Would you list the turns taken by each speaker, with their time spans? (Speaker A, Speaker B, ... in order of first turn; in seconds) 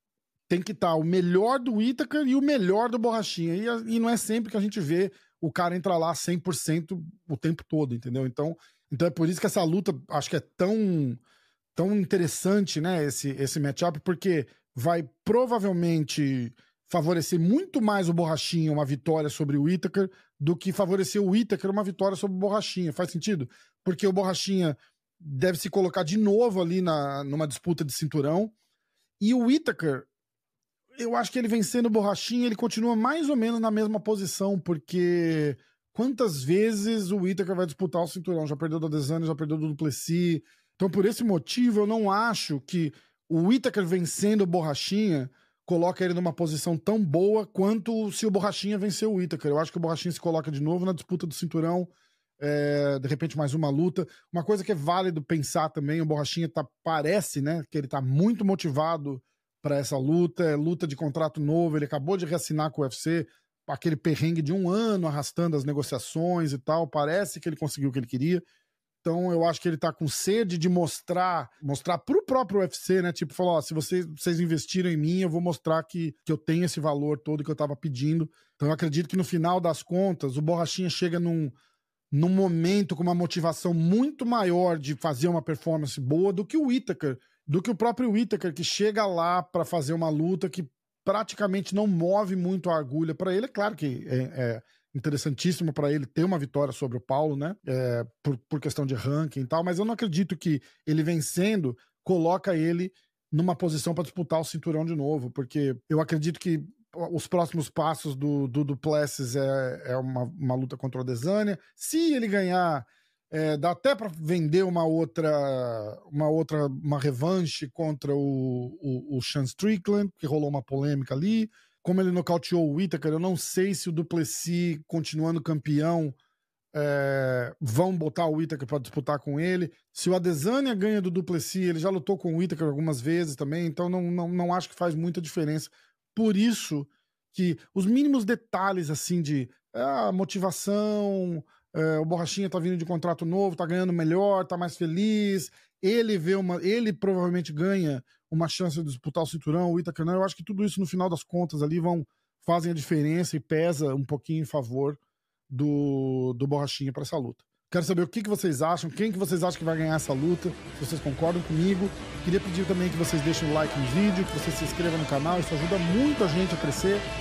Speaker A: 0.5-11.2, 11.8-28.5, 29.2-30.1, 31.0-68.4, 69.0-81.5, 82.1-126.2, 126.7-155.0, 155.5-167.1